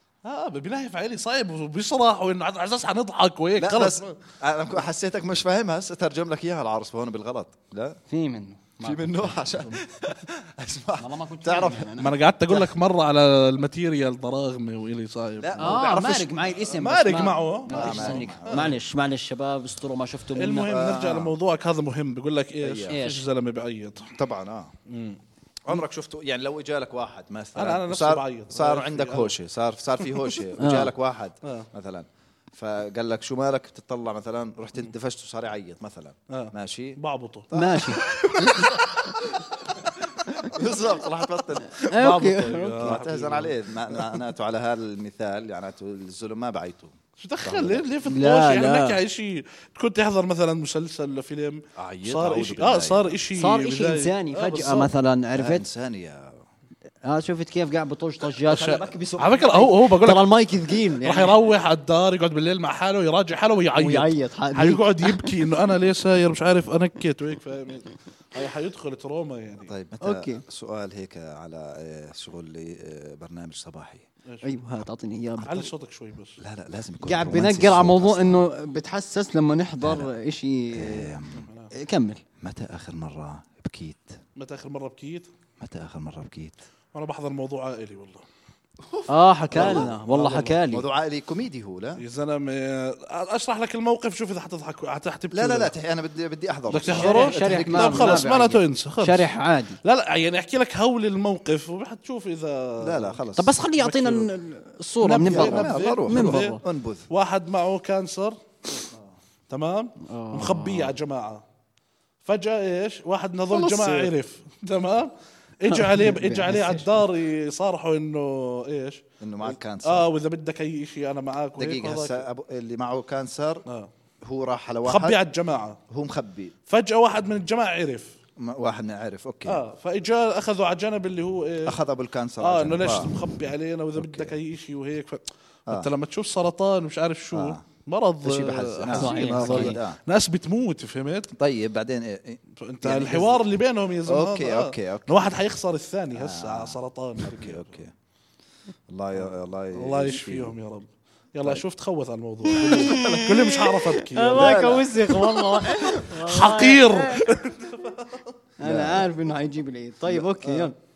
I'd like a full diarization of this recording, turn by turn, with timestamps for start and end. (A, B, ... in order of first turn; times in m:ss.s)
0:00.2-0:04.2 A
0:03.6-0:08.0 B
0:08.1-0:09.7 C
0:08.8-0:11.9 B
0:11.0-0:12.2 C
0:12.0-0:15.9 A
0:15.4-0:16.3 B
0:15.6-0:20.8 C
0:16.7-0:18.7 A
0:17.7-0:18.7 B
0:20.4-0:24.1 A
0:20.6-0:21.3 B
0:22.6-0:23.0 B
0:22.9-0:23.2 C
0:24.1-0:24.7 B
0:24.9-0:25.2 A
0:25.6-0:37.0 B
0:27.6-0:29.3 A
0:30.6-0:30.9 C
0:36.3-0:38.8 A
0:37.5-0:38.8 C
0:37.5-0:39.5 B
0:40.2-0:41.8 B
0:41.8-0:44.0 A
0:41.8-0:43.0 C
0:42.8-0:47.9 B
0:47.2-0:54.9 A
0:48.0-0:49.0 C
0:51.8-0:53.1 B
0:53.3-0:55.6 C
0:55.4-0:56.4 B
0:57.0-1:01.4 C
0:58.4-1:00.3 A
1:01.0-1:09.7 A
1:03.8-1:05.3 C
1:09.6-1:14.0 B
1:10.0-1:10.4 C
1:14.2-1:14.5 A
1:14.4-1:15.7 C
1:15.4-1:16.4 A
1:16.4-1:18.5 B
1:17.0-1:21.2 C
1:19.8-1:20.1 B
1:20.7-1:21.4 B
1:21.3-1:21.7 A
1:21.7-1:22.2 C
1:22.4-1:24.2 B
1:24.4-1:25.3 A
1:25.6-1:26.6 B
1:26.9-1:28.2 A
1:28.8-1:30.0 B
1:29.1-1:30.8 C
1:29.5-1:30.5 A
1:30.7-1:32.0 B
1:32.0-1:35.7 A
1:35.3-1:38.3 B
1:36.7-1:43.2 A
1:36.9-1:39.8 C
1:42.8-1:43.5 B
1:43.4-1:46.6 C
1:43.7-1:44.3 A
1:45.0-1:46.6 A
1:45.2-1:47.1 B
1:47.1-1:48.4 A
1:49.5-1:51.4 A
1:50.0-1:50.9 C
1:52.2-2:02.2 A
1:53.5-1:54.0 C
1:55.7-1:56.9 C
1:59.2-2:00.1 B
2:01.6-2:03.6 B
2:04.2-2:05.2 B
2:04.8-2:05.8 A
2:05.9-2:06.5 B
2:06.7-2:08.1 A
2:08.4-2:09.6 B
2:09.4-2:11.8 A
2:11.6-2:13.1 B
2:12.4-2:21.3 A
2:14.0-2:14.3 B
2:17.3-2:17.6 B
2:18.2-2:20.0 B
2:18.9-2:19.8 C
2:21.4-2:23.4 B
2:22.6-2:27.7 A
2:24.0-2:25.2 B
2:26.1-2:27.9 B
2:28.9-2:30.5 B
2:29.2-2:34.6 A
2:32.5-2:37.2 C
2:34.3-2:35.2 B
2:35.6-2:38.3 A
2:38.6-2:40.7 C
2:38.6-2:39.1 B
2:40.1-2:40.6 B